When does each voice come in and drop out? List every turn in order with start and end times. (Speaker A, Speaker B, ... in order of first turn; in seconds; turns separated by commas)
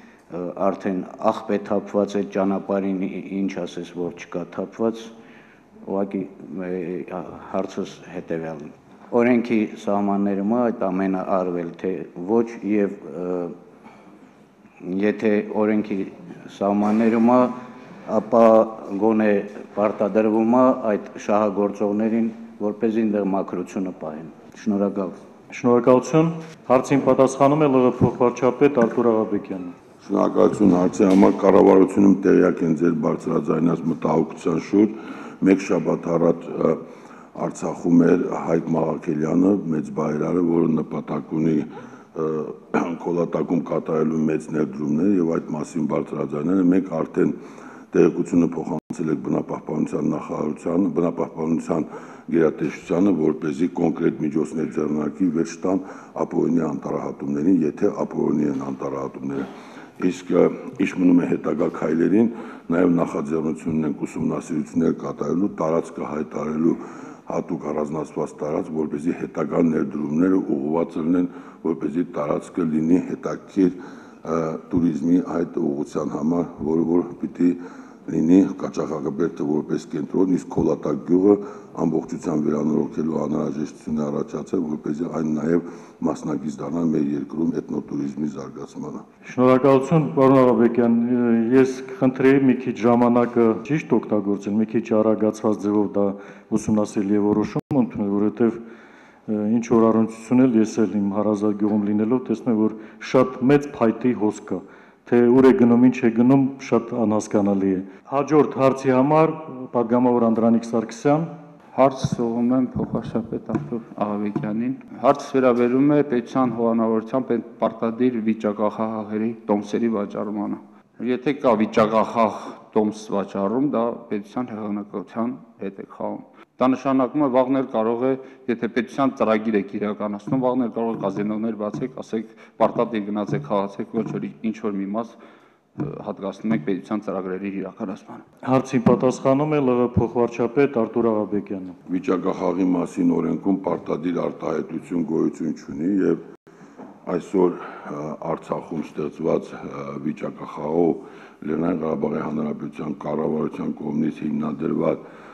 Speaker A: 0.3-5.1, Speaker A: 5.9-13.5, Speaker A: 14.8-17.5, Speaker A: 18.1-25.1, Speaker B: 25.5-29.7, Speaker C: 30.0-36.8, Speaker C: 37.4-47.3, Speaker C: 47.9-59.5, Speaker C: 60.0-89.0, Speaker B: 89.2-98.6, Speaker B: 99.3-111.3, Speaker D: 111.7-135.2, Speaker D: 135.8-138.2, Speaker B: 138.4-141.8, Speaker C: 141.9-146.2, Speaker C: 147.1-155.0